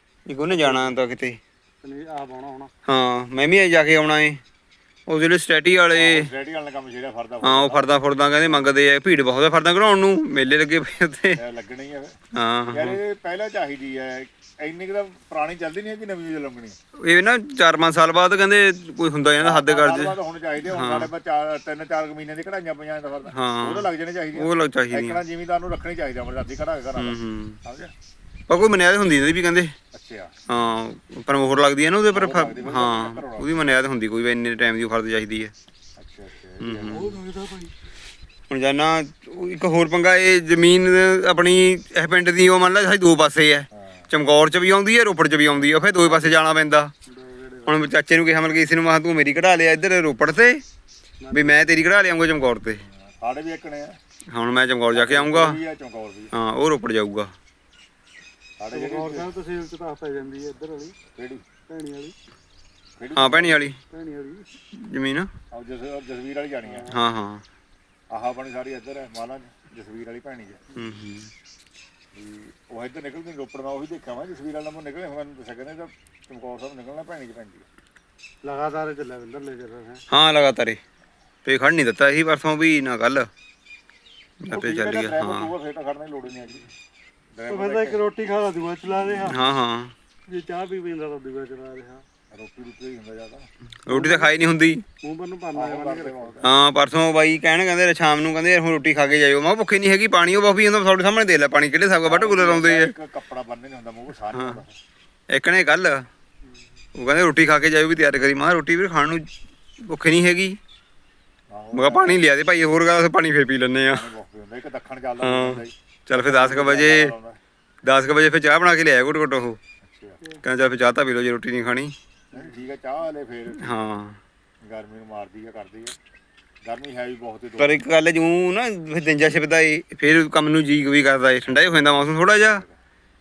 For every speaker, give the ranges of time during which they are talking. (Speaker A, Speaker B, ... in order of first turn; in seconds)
Speaker A: 0.3-1.4, 2.9-4.4, 5.1-6.3, 7.4-11.4, 12.3-13.0, 17.0-21.1, 23.3-25.2, 27.0-27.6, 28.5-29.7, 30.5-35.5, 36.6-37.2, 38.5-46.9, 47.7-50.6, 51.3-52.8, 54.3-55.6, 56.3-57.3, 63.1-63.8, 64.7-65.3, 66.9-67.4, 70.8-71.3, 80.1-80.8, 81.5-83.3, 84.4-85.5, 89.1-89.9, 93.9-94.8, 96.4-102.9, 104.3-104.6, 105.3-106.1, 107.0-109.3, 109.8-110.6, 111.7-114.1, 115.2-117.2, 117.8-119.6, 120.4-121.9, 123.6-124.2, 127.6-132.6
Speaker B: 0.5-1.0, 1.8-2.7, 36.8-37.7, 47.1-47.8, 51.2-51.8, 58.7-61.0, 61.7-62.1, 63.9-64.5, 66.7-67.0, 78.4-80.0, 87.5-89.4, 90.3-92.0, 93.9-94.4, 95.0-96.4
Speaker C: 5.9-7.9, 11.4-12.1, 12.7-16.8, 19.4-27.9, 29.9-30.3, 32.1-33.7, 36.0-37.0, 43.8-44.0, 53.2-54.0, 54.9-56.3, 58.6-59.3, 61.1-61.4, 63.0-63.7, 65.5-66.9, 68.1-70.6, 72.2-77.7, 84.5-86.7, 87.3-88.0, 92.3-93.5, 95.5-96.5, 102.0-104.7, 111.5-112.2, 113.9-117.4, 119.8-120.2, 122.3-123.7, 124.7-125.9, 126.7-127.8, 131.5-132.8